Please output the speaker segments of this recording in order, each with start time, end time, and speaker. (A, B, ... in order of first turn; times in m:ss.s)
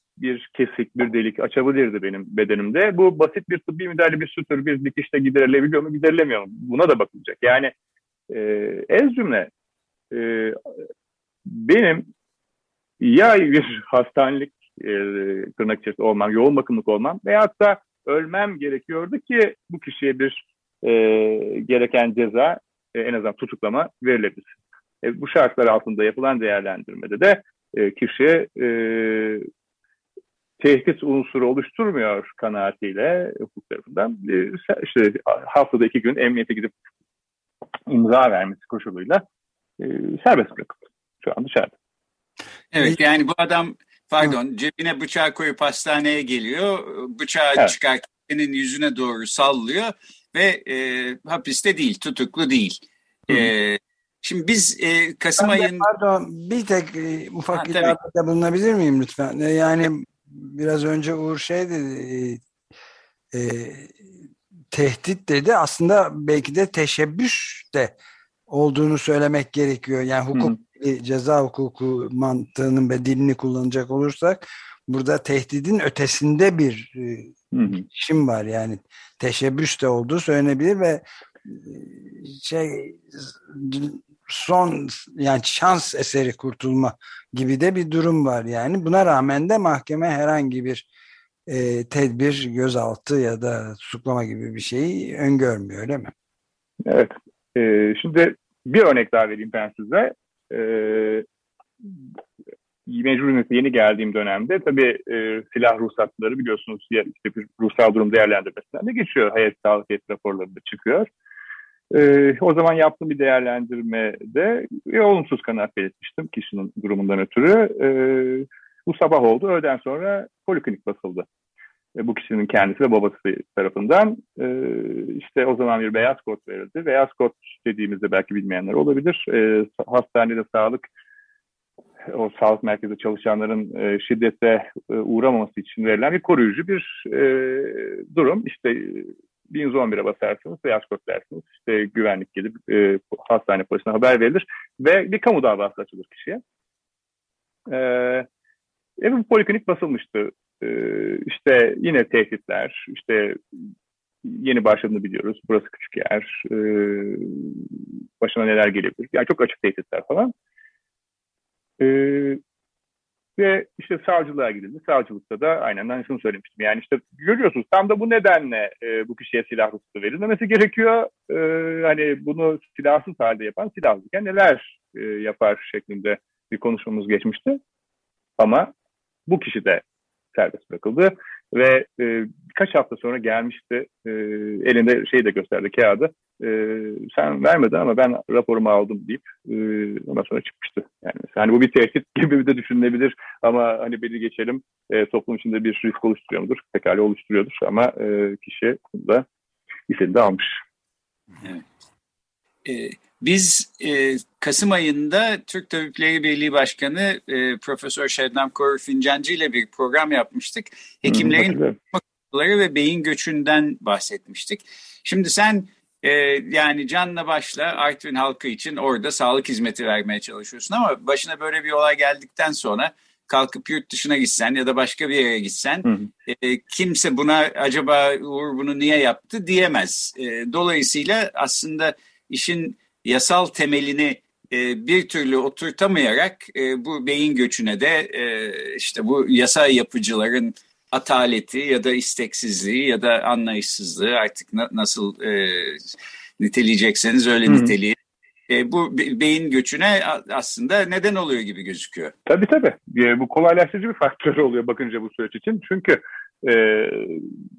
0:00.2-0:07.7 A
0:08.3-0:09.5 A
0:10.1-0:10.6 A
0:11.5-0:12.1 A
0:13.0-0:24.5 A
0:25.0-0:29.5 A
0:30.6-0:36.7 A
0:37.9-0:39.2 A
0:39.8-0:41.7 A
0:42.7-0:55.8 B
0:55.4-1:02.4 C
0:57.5-0:57.9 B
1:03.3-1:04.0 C
1:04.7-1:07.9 C
1:08.5-1:30.9 C
1:17.5-1:17.8 A
1:31.5-1:36.1 C
1:36.8-1:41.2 A
1:42.9-1:51.1 A
1:51.9-2:01.2 A
2:02.0-2:10.8 A
2:12.1-2:26.4 A
2:27.7-2:28.3 A
2:29.0-2:33.4 A
2:34.2-2:37.6 A
2:38.2-2:40.3 A
2:41.8-2:42.4 A
2:43.4-2:57.6 A
2:58.4-2:58.7 A
2:59.3-2:59.8 A
3:00.3-3:19.2 A
3:19.9-3:20.6 A
3:22.6-4:08.0 B
3:31.0-3:31.8 A
4:07.5-4:07.7 A
4:08.5-4:12.1 B
4:12.2-4:17.3 A